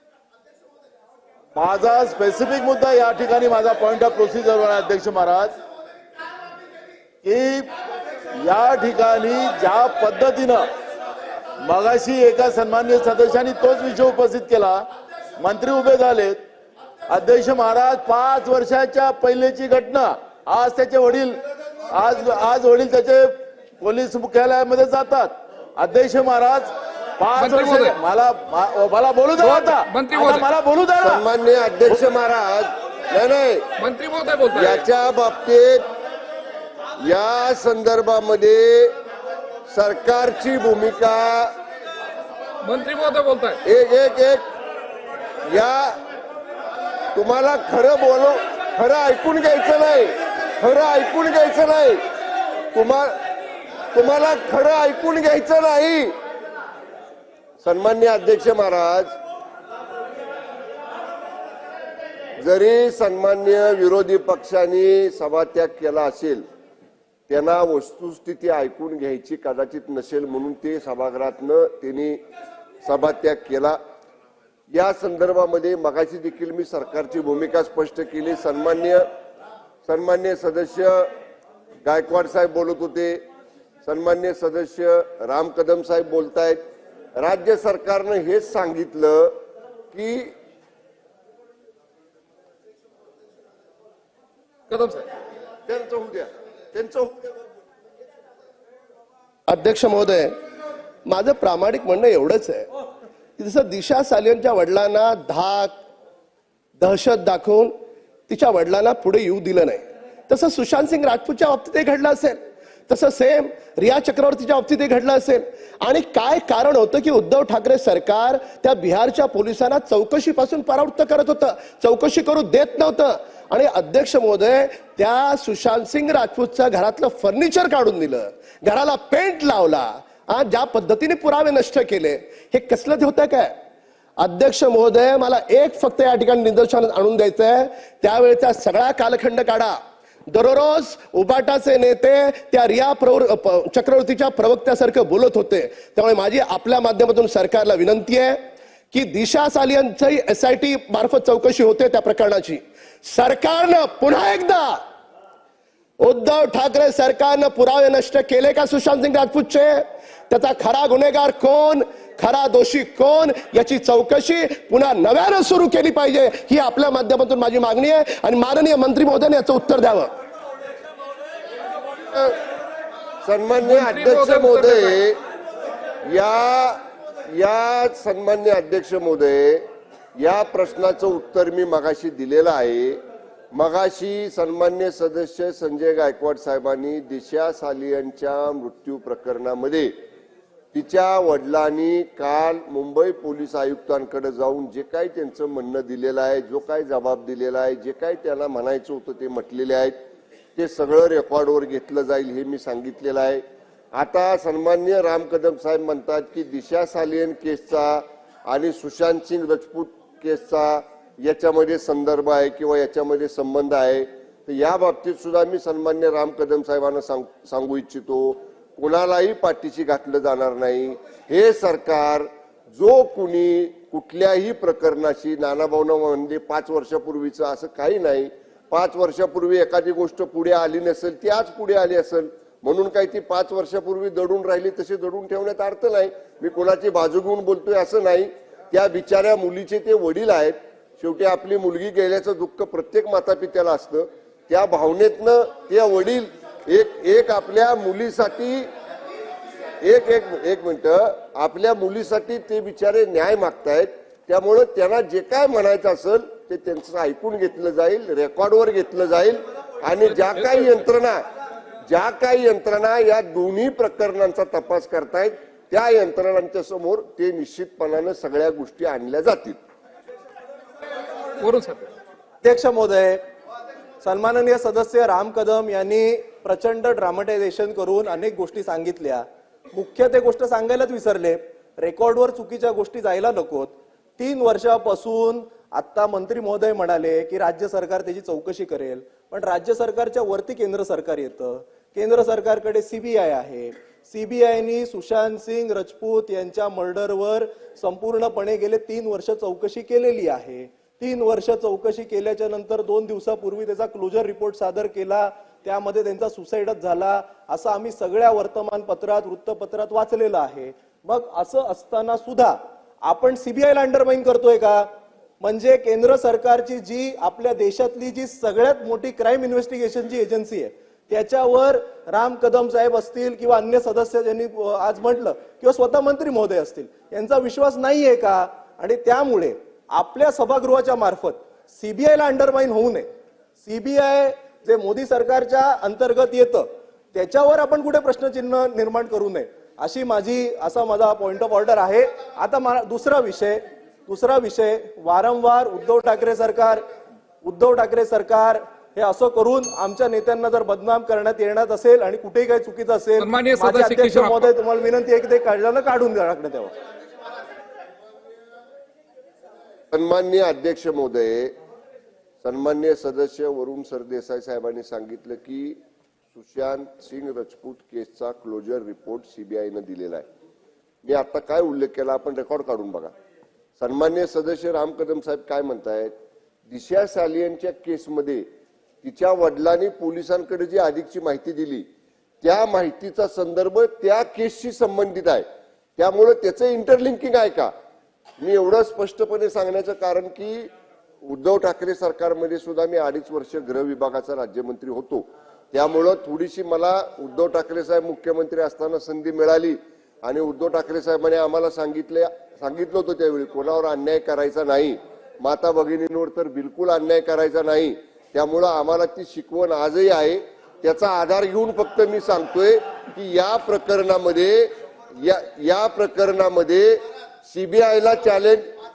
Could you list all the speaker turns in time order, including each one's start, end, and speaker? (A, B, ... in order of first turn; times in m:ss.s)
0:01.5-0:05.5 A
0:07.2-0:07.7 A
0:08.4-0:10.6 A
0:11.6-0:14.8 A
0:15.4-0:16.4 A
0:17.1-0:21.4 A
0:21.9-0:31.2 A
0:27.4-0:28.0 B
0:29.4-0:30.5 B
0:31.0-0:33.6 C
0:33.8-0:34.8 B
0:34.5-0:35.9 C
0:37.0-0:38.9 C
0:39.7-0:41.5 C
0:42.6-0:43.6 B
0:43.6-0:44.4 C
0:45.5-0:46.0 C
0:47.1-0:52.0 C
0:52.7-0:53.2 C
0:53.9-0:56.1 C
0:57.6-0:59.1 C
1:02.4-1:06.4 C
1:07.3-1:12.2 C
1:12.8-1:13.8 C
1:14.7-1:19.1 C
1:19.8-1:21.1 C
1:21.8-1:23.2 C
1:23.8-1:26.6 C
1:27.2-1:29.4 C
1:29.9-1:30.3 C
1:34.7-1:35.1 B
1:35.7-1:37.4 C
1:39.5-1:40.3 D
1:41.0-1:42.7 D
1:43.4-1:45.8 D
1:46.8-1:47.8 D
1:48.3-2:13.5 D
2:14.2-2:19.8 D
2:20.3-2:34.8 D
2:36.0-2:50.1 D
2:52.1-2:52.4 C
2:53.2-2:55.2 C
2:53.6-2:55.0 B
2:56.0-3:03.0 C
3:03.5-3:09.9 C
3:10.7-3:20.0 C
3:20.6-3:23.4 C
3:23.9-4:08.7 C
4:09.8-4:21.2 C
4:20.1-4:20.8 B
4:21.9-4:29.6 C
4:31.4-4:31.9 B
4:32.4-4:33.2 E
4:34.0-5:33.1 E
5:33.6-5:46.8 E
5:47.4-5:56.7 E
5:53.2-5:54.5 B
5:59.9-6:01.6 C
6:02.4-6:05.8 C
6:06.4-6:10.2 C
6:11.0-6:13.1 C
6:13.8-6:16.1 C
6:16.7-6:18.5 C
6:19.0-6:21.9 C
6:22.4-6:25.4 C
6:26.0-6:27.7 C
6:28.4-6:30.7 C
6:31.2-6:58.7 C